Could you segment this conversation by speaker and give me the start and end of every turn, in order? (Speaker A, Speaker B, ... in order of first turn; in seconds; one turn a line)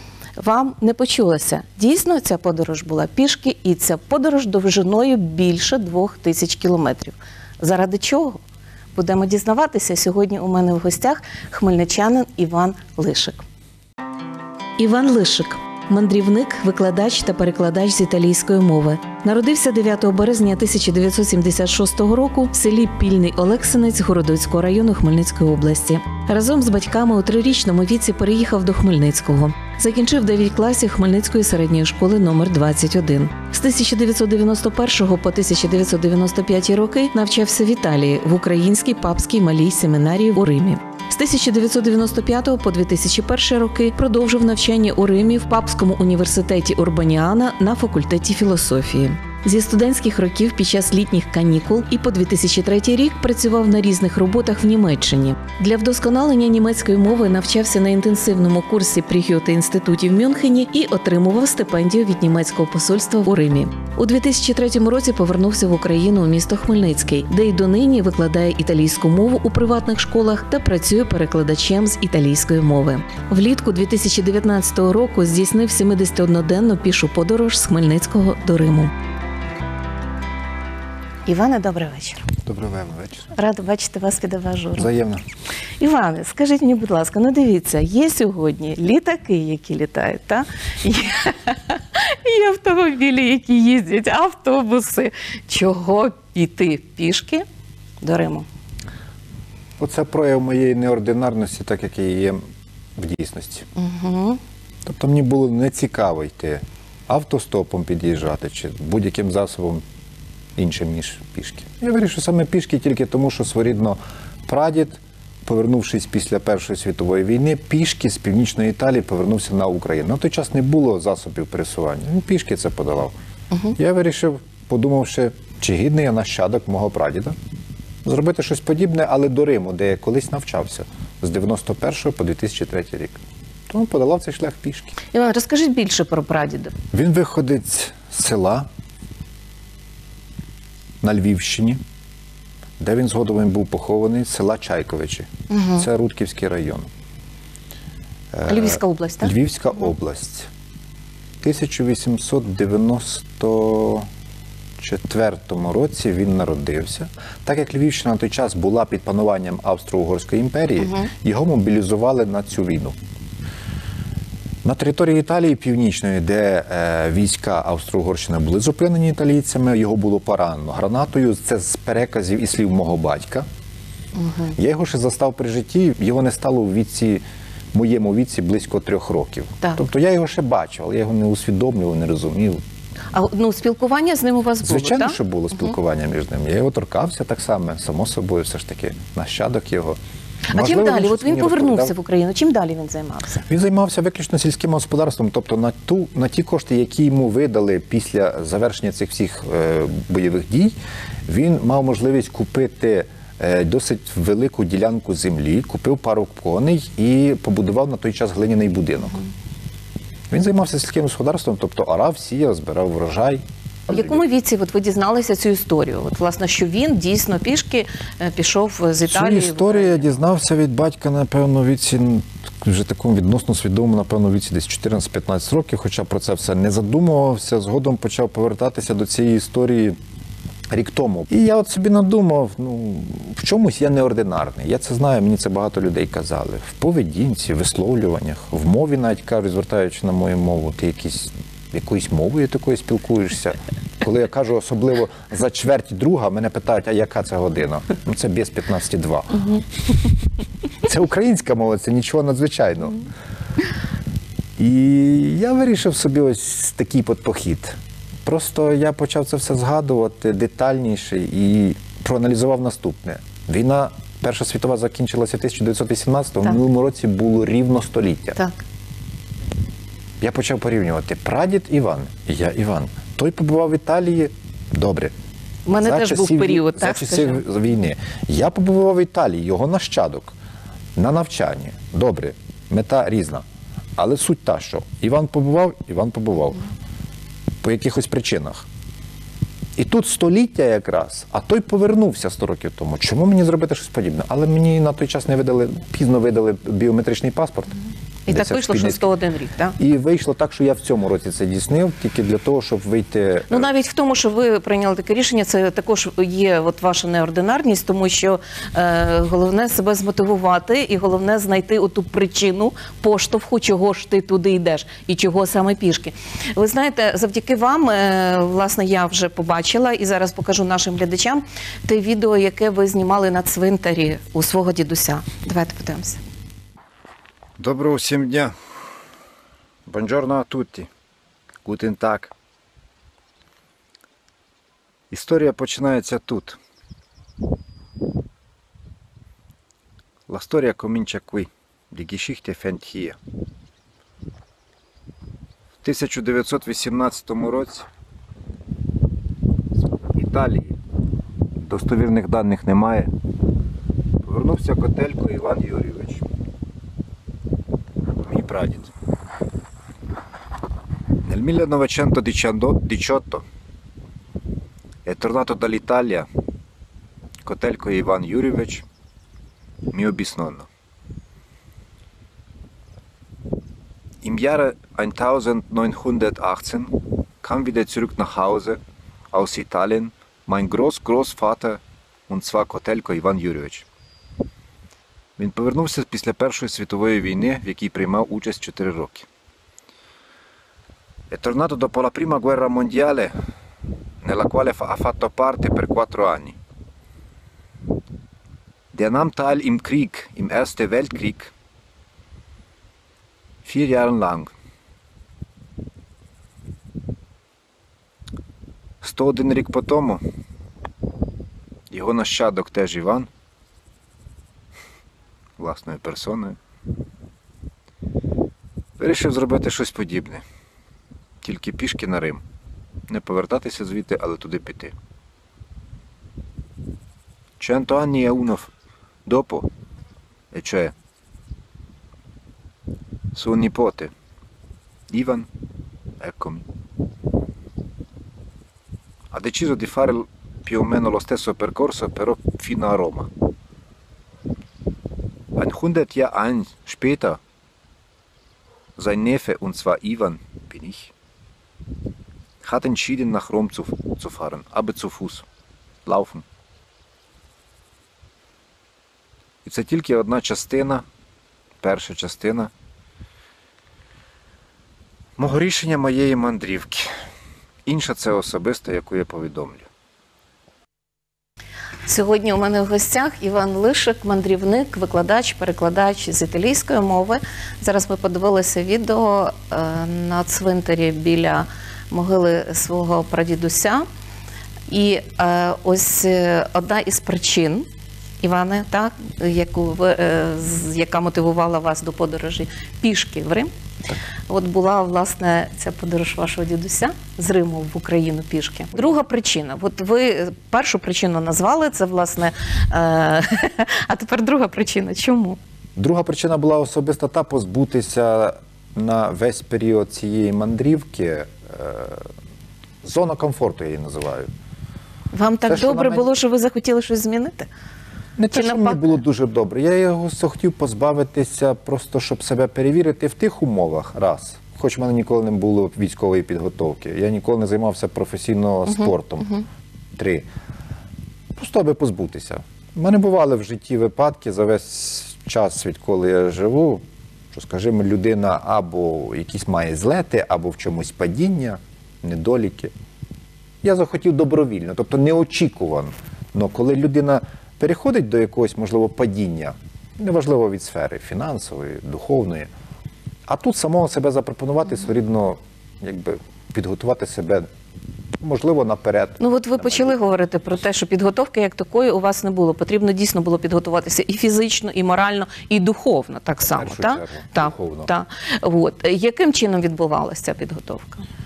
Speaker A: 0.4-8.4
Speaker A: 8.9-13.4
Speaker A: 14.8-78.9
Speaker A: 81.2-82.3
Speaker B: 82.4-83.3
Speaker A: 83.3-84.9
Speaker B: 84.8-85.2
Speaker A: 85.8-97.5
Speaker A: 98.0-98.5
Speaker B: 99.8-102.4
Speaker B: 103.0-103.7
Speaker A: 103.7-104.4
Speaker B: 104.8-109.8
Speaker B: 110.5-123.1
Speaker B: 123.7-127.3
Speaker B: 128.0-133.2
Speaker B: 133.7-134.9
Speaker A: 135.1-136.7
Speaker B: 136.9-138.7
Speaker B: 141.0-141.8
Speaker B: 142.8-146.9
Speaker A: 145.5-145.8
Speaker B: 148.3-150.5
Speaker A: 148.5-149.3
Speaker B: 151.4-154.1
Speaker B: 154.8-163.0
Speaker A: 160.8-161.1
Speaker B: 164.6-173.4
Speaker A: 174.2-174.5
Speaker B: 174.5-182.6
Speaker A: 183.1-185.2
Speaker B: 184.6-190.0
Speaker A: 190.5-193.4
Speaker B: 190.5-191.9
Speaker B: 193.4-200.8
Speaker B: 201.3-209.2
Speaker B: 210.3-214.2
Speaker A: 213.9-220.1
Speaker B: 219.1-230.0
Speaker B: 230.7-249.6
Speaker B: 250.8-253.1
Speaker B: 254.6-268.4
Speaker B: 270.2-275.1
Speaker A: 275.6-277.4
Speaker B: 275.7-280.3
Speaker B: 280.9-283.4
Speaker B: 284.0-286.6
Speaker B: 287.6-288.6
Speaker B: 289.8-299.0
Speaker A: 298.3-299.8
Speaker B: 299.8-303.7
Speaker A: 303.5-326.2
Speaker B: 327.6-328.5
Speaker B: 329.9-330.9
Speaker B: 331.6-332.3
Speaker B: 335.1-336.6
Speaker B: 340.3-343.2
Speaker B: 345.8-347.9
Speaker B: 350.1-350.8
Speaker B: 351.6-353.1
Speaker B: 354.2-356.3
Speaker B: 358.2-358.9
Speaker B: 361.2-363.5
Speaker B: 365.0-366.3
Speaker B: 367.4-368.8
Speaker B: 369.9-370.7
Speaker B: 374.2-378.8
Speaker B: 379.3-383.9
Speaker B: 385.4-389.3
Speaker B: 391.3-393.3
Speaker B: 394.2-396.6
Speaker B: 398.9-401.5
Speaker B: 403.6-404.5
Speaker B: 409.0-410.2
Speaker B: 411.9-413.3
Speaker B: 415.6-416.6
Speaker B: 419.0-420.4
Speaker B: 421.4-422.4
Speaker B: 423.1-424.9
Speaker B: 427.6-428.7
Speaker B: 429.2-429.7
Speaker B: 430.5-430.9
Speaker B: 433.3-434.1
Speaker B: 435.1-435.5
Speaker B: 436.2-436.7
Speaker B: 439.3-443.3
Speaker B: 445.5-447.4
Speaker B: 449.0-451.1
Speaker B: 452.6-455.5
Speaker B: 456.0-456.4
Speaker B: 459.6-461.1
Speaker B: 461.8-462.7
Speaker B: 465.4-467.1
Speaker B: 467.8-469.9
Speaker A: 472.1-484.1
Speaker A: 484.9-487.9
Speaker A: 488.4-493.7
Speaker A: 494.5-505.6
Speaker B: 505.9-512.3
Speaker B: 513.0-514.5
Speaker A: 515.3-517.7
Speaker B: 515.6-516.3
Speaker B: 518.4-529.6
Speaker A: 518.5-519.1
Speaker B: 530.1-530.5
Speaker B: 531.5-542.9
Speaker B: 543.8-552.7
Speaker B: 553.5-557.7
Speaker B: 558.4-560.1
Speaker A: 559.4-571.2
Speaker B: 566.7-568.1